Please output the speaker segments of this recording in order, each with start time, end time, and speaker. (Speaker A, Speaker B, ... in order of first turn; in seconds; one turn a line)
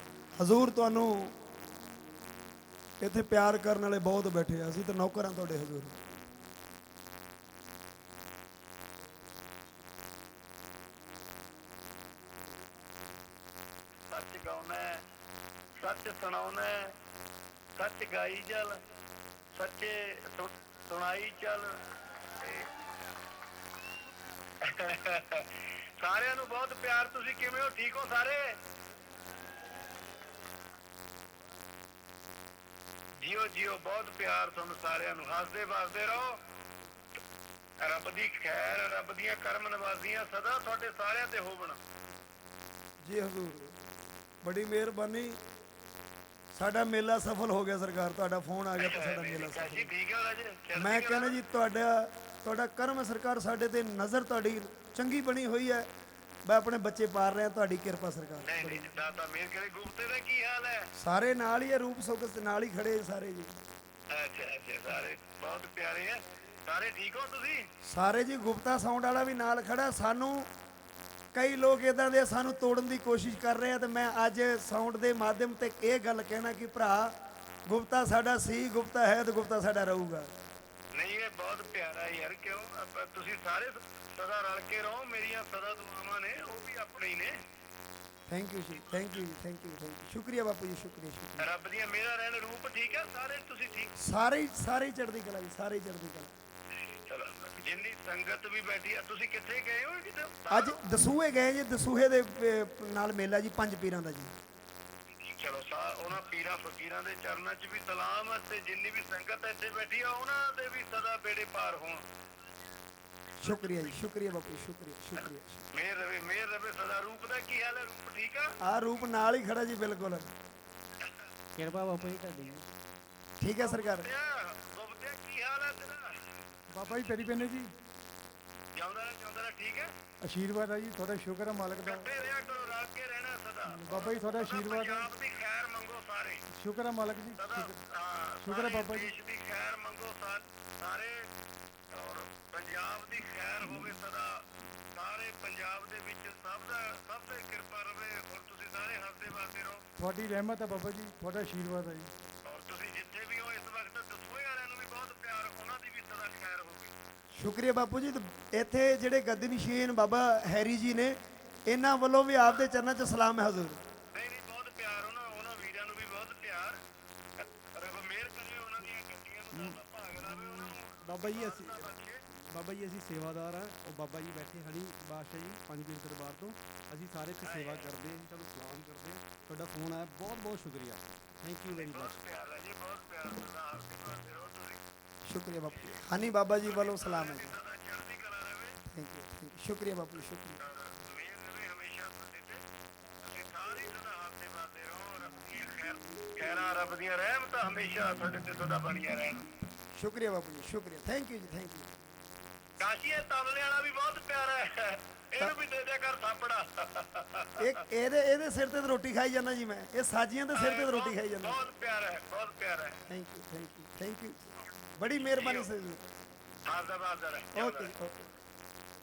Speaker A: 0.3-1.3
Speaker A: 3.0-6.0
Speaker B: 14.1-15.0
Speaker B: 15.8-16.9
Speaker B: 17.8-18.8
Speaker B: 19.5-21.8
Speaker B: 22.4-22.7
Speaker B: 24.6-28.6
Speaker B: 33.2-36.4
Speaker B: 37.8-41.8
Speaker A: 43.0-43.7
Speaker A: 44.4-45.4
Speaker A: 46.5-49.9
Speaker B: 48.8-51.4
Speaker A: 50.7-55.9
Speaker A: 56.4-58.9
Speaker B: 58.4-60.9
Speaker A: 61.0-63.5
Speaker B: 64.1-67.7
Speaker A: 67.8-70.5
Speaker A: 71.3-77.1
Speaker A: 77.7-80.3
Speaker B: 80.9-87.4
Speaker A: 88.3-91.5
Speaker B: 91.4-94.0
Speaker A: 94.0-96.3
Speaker B: 97.0-100.8
Speaker A: 100.5-104.3
Speaker B: 105.3-112.0
Speaker A: 113.4-115.7
Speaker B: 113.4-113.9
Speaker B: 115.7-118.5
Speaker A: 118.6-120.3
Speaker C: 121.6-122.6
Speaker A: 123.4-124.1
Speaker B: 123.6-126.2
Speaker D: 126.7-127.7
Speaker B: 128.7-129.9
Speaker D: 130.2-132.1
Speaker B: 131.8-136.4
Speaker D: 133.7-135.1
Speaker D: 136.5-137.8
Speaker B: 137.3-141.3
Speaker D: 138.4-139.1
Speaker B: 141.9-149.8
Speaker D: 150.0-152.1
Speaker B: 152.4-156.9
Speaker A: 157.3-163.8
Speaker B: 164.1-166.8
Speaker B: 167.4-172.2
Speaker C: 169.5-169.8
Speaker C: 171.0-171.8
Speaker C: 172.5-182.1
Speaker B: 177.4-177.9
Speaker B: 181.7-184.8
Speaker A: 185.2-187.5
Speaker B: 186.6-188.8
Speaker A: 188.8-190.6
Speaker B: 190.6-192.6
Speaker B: 193.2-199.5
Speaker A: 199.9-201.9
Speaker B: 202.8-207.7
Speaker A: 207.6-211.6
Speaker B: 210.5-213.0
Speaker A: 213.1-216.0
Speaker B: 215.2-215.7
Speaker B: 216.6-217.9
Speaker A: 217.5-218.2